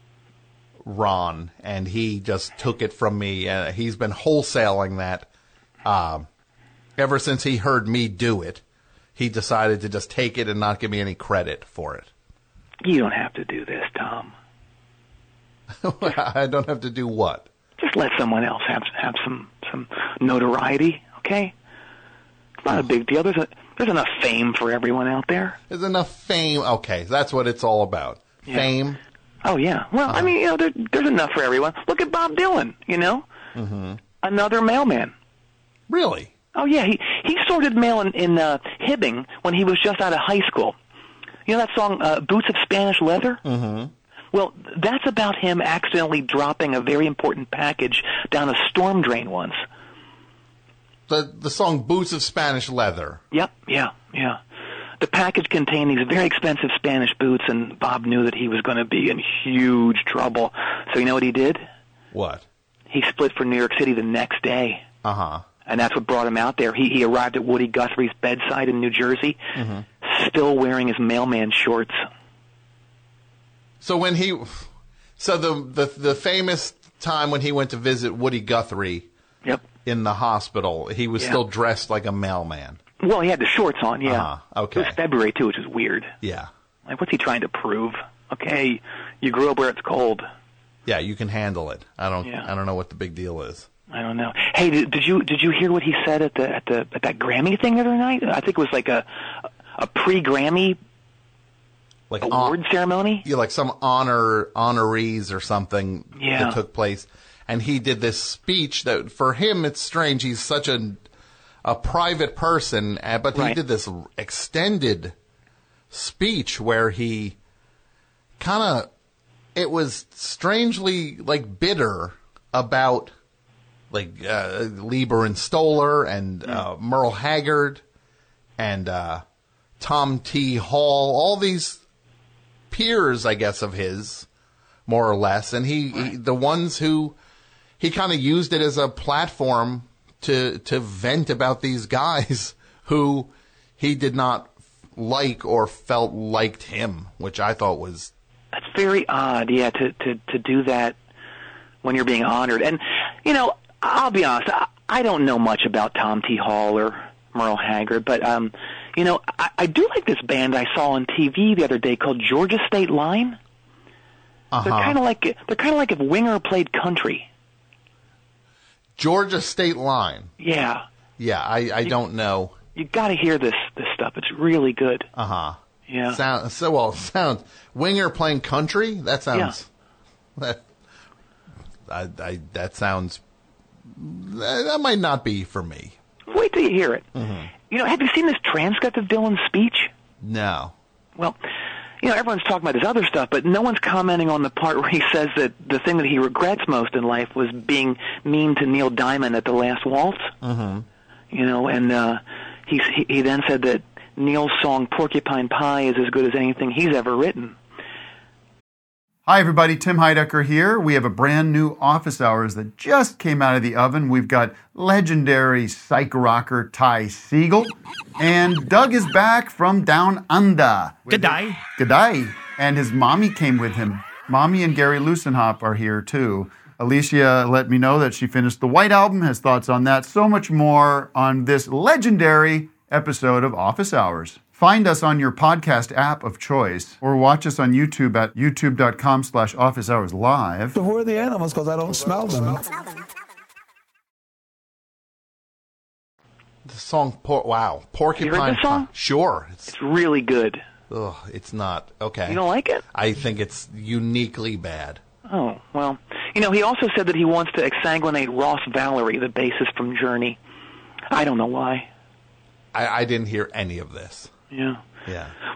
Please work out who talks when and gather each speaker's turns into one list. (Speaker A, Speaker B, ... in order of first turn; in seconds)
Speaker A: 0.8-5.3, 5.8-6.3, 7.0-8.6, 9.2-12.1, 15.8-17.5, 25.7-29.0, 33.5-34.0, 35.9-36.3, 43.4-43.9, 51.1-53.2, 62.1-62.4, 65.0-65.4, 69.6-69.9, 73.8-79.1, 79.8-82.8, 84.0-85.0, 86.2-86.5, 90.9-93.7, 102.1-102.6, 103.2-111.0, 111.6-115.1, 115.9-117.4, 118.4-118.9, 119.5-123.1, 123.9-127.8, 128.6-129.2, 129.8-131.8, 132.7-134.3, 134.9-137.2, 137.8-148.1, 164.5-165.0, 169.0-170.3, 171.2-172.6, 175.2-175.6, 176.1-179.7, 180.4-180.6, 181.9-183.2, 183.9-185.9, 187.2-187.5, 190.2-190.7, 200.4-200.9, 246.7-249.7, 250.9-252.4, 252.9-255.0, 262.7-264.3, 265.1-265.3
Speaker B: 12.8-14.3, 17.8-21.5, 22.6-25.6, 29.4-33.3, 34.2-35.1, 36.5-40.8, 41.5-43.4, 44.3-49.6, 53.3-54.4, 55.0-61.6, 62.9-64.8, 65.7-69.4, 70.0-72.0, 83.0-86.1, 86.9-90.3, 93.9-100.8, 102.2-103.2, 106.2-106.6, 148.5-151.0, 151.8-163.4, 164.6-167.3, 170.4-170.8, 172.8-175.1, 175.9-176.2, 186.3-187.1, 187.7-189.9, 192.0-200.3, 201.3-207.6, 248.2-248.9, 249.7-250.6, 252.3-252.8, 255.3-260.4, 261.1-261.9, 264.5-264.8
Speaker C: 209.3-240.8
Speaker D: 240.8-242.9